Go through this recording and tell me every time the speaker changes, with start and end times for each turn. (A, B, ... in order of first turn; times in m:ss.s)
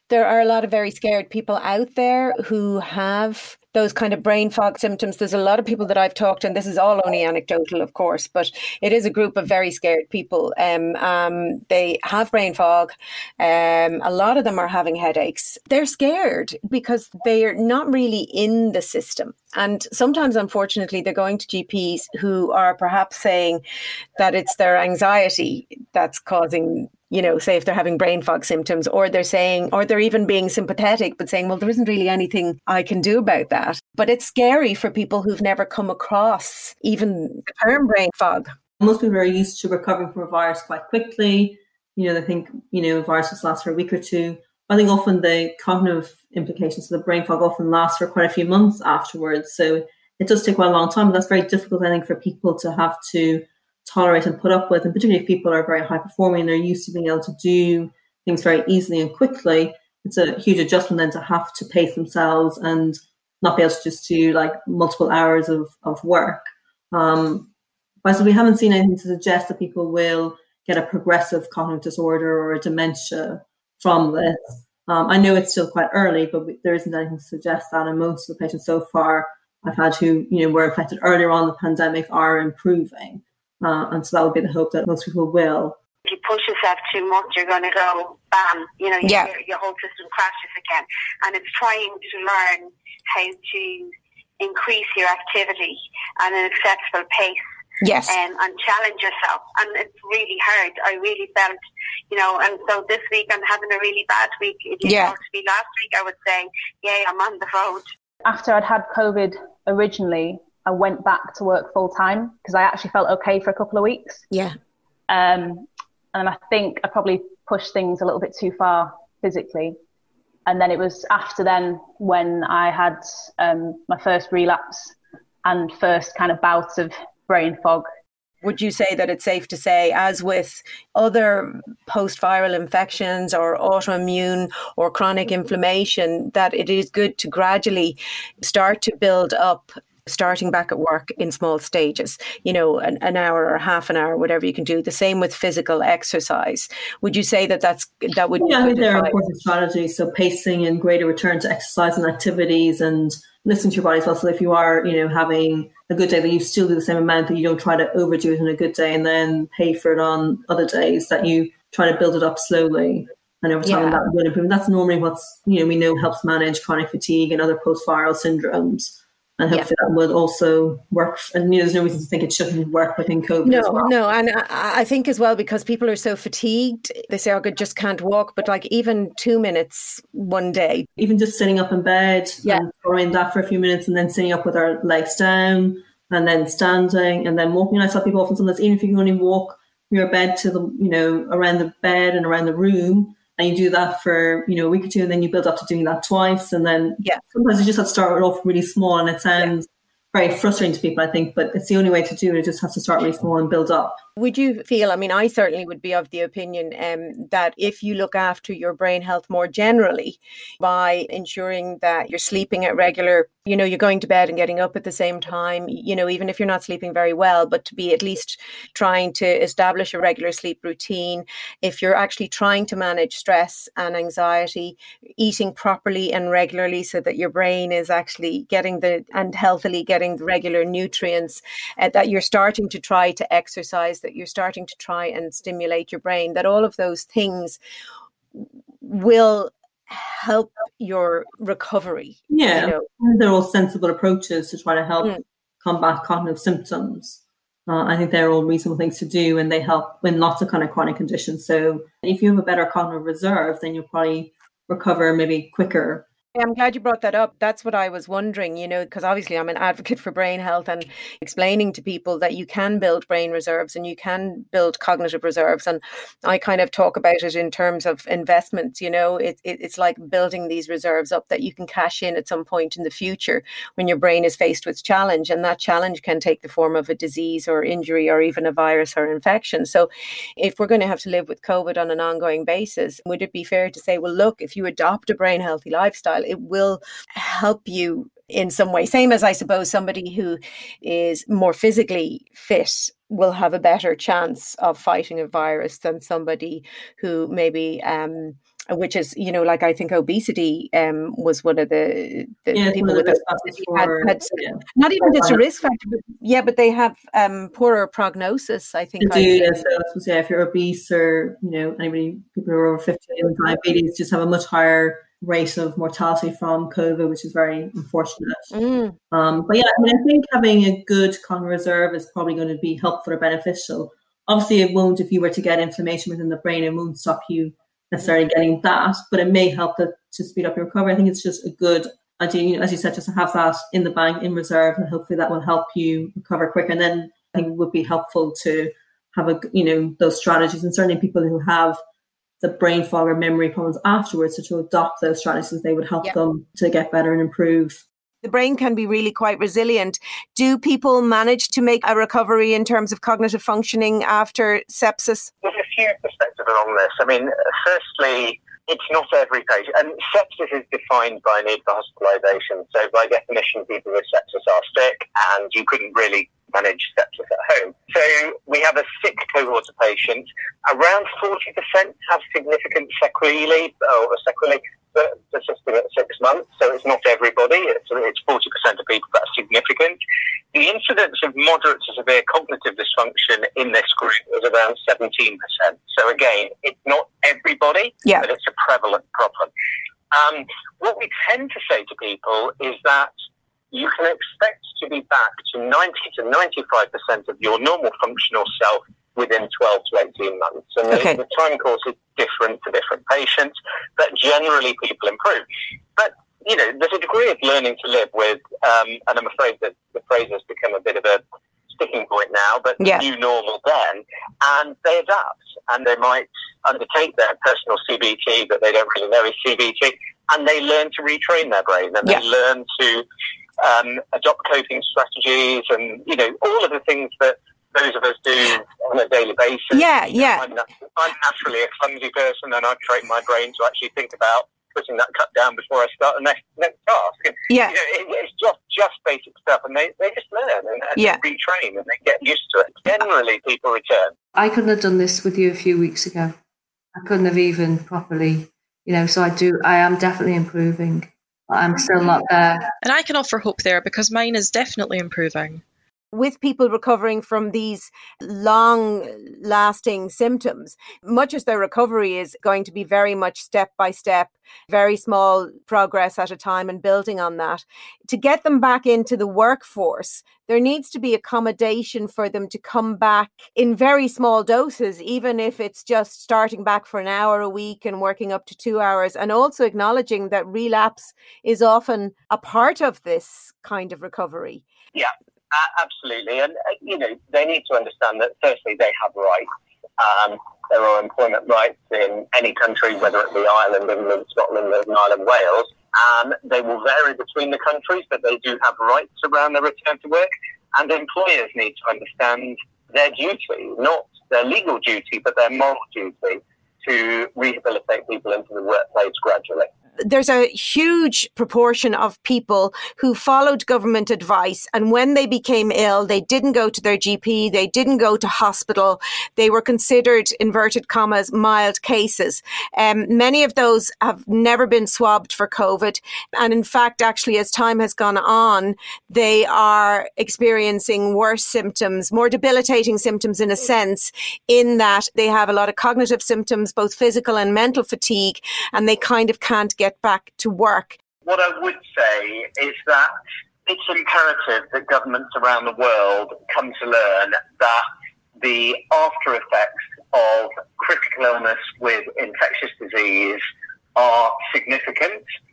0:00.1-0:23.6 A
0:24.2-0:38.5 A
0:38.8-1:07.5 B
1:08.0-1:25.8 B
1:26.1-1:37.4 C
1:29.0-1:29.3 A
1:37.8-1:38.2 A
1:38.1-1:41.6 C
1:42.1-1:47.8 C
1:44.8-1:45.2 A
1:48.2-1:54.2 D
1:54.3-1:54.6 A
1:55.1-1:59.8 D
2:00.5-2:07.9 D
2:08.4-2:29.2 A
2:28.4-2:53.9 B
2:43.6-2:44.0 A
2:53.4-3:00.9 A
3:01.0-3:24.0 B
3:24.2-3:57.6 A
3:58.4-4:02.9 A
4:02.3-4:16.1 B
4:16.4-5:09.7 A
5:02.5-5:05.4 B
5:09.0-5:18.4 B
5:18.5-5:19.0 A
5:19.1-5:41.8 B
5:42.4-5:47.8 B
5:48.2-5:55.3 A
5:55.4-6:20.0 E
6:20.5-6:29.5 E
6:28.0-6:28.3 A
6:30.1-6:33.1 E
6:33.7-6:45.4 E
6:40.9-6:41.2 A
6:46.0-6:51.2 E
6:51.7-7:03.0 E
6:52.8-6:53.1 A
7:03.6-7:24.1 E
7:09.7-7:10.5 A
7:17.5-7:17.7 A
7:21.0-7:21.2 A
7:24.4-7:26.4 F
7:27.0-7:32.7 F
7:32.8-7:35.6 G
7:36.1-8:04.6 A
8:05.0-8:29.7 E
8:30.0-9:01.0 A
9:01.2-9:03.2 E
9:03.7-9:07.8 E
9:08.4-9:13.4 E
9:14.0-9:15.2 E